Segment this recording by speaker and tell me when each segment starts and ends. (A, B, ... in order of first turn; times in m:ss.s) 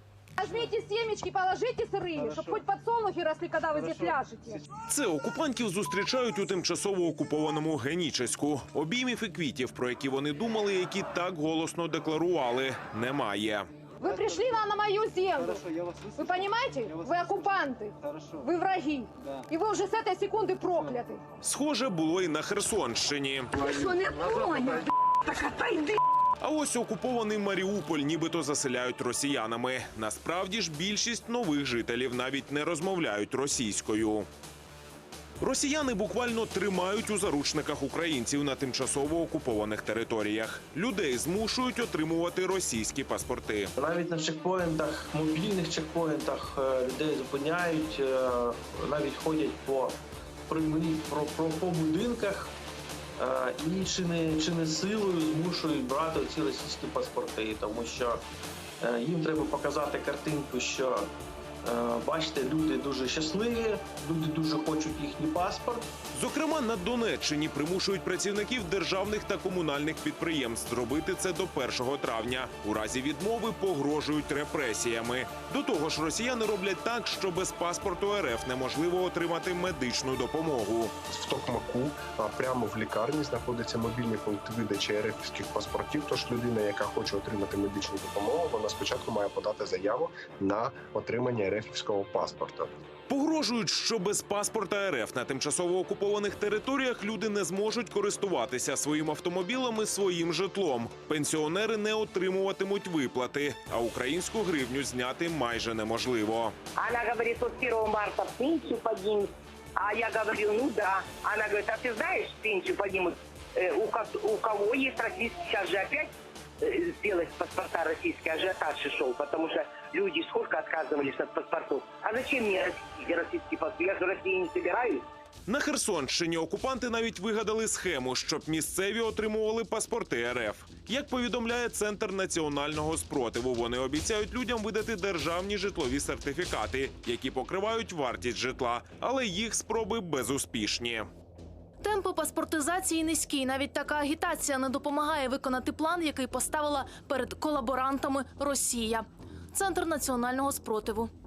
0:00.4-0:04.6 A
0:04.9-0:13.7 B
0:14.0-0:21.2 A
0:21.4-0:23.7 B
0:23.6-0:26.0 A
0:26.4-0:34.3 B
0:35.4-0:43.7 B
0:43.8-0:52.5 C
0:53.2-0:58.2 C
0:58.8-1:01.1 C
1:01.6-1:05.9 C
1:06.1-1:20.9 B
1:21.1-1:32.7 D
1:33.1-1:46.5 B
1:46.8-2:05.0 E
2:05.4-2:21.1 B
2:21.8-2:31.1 F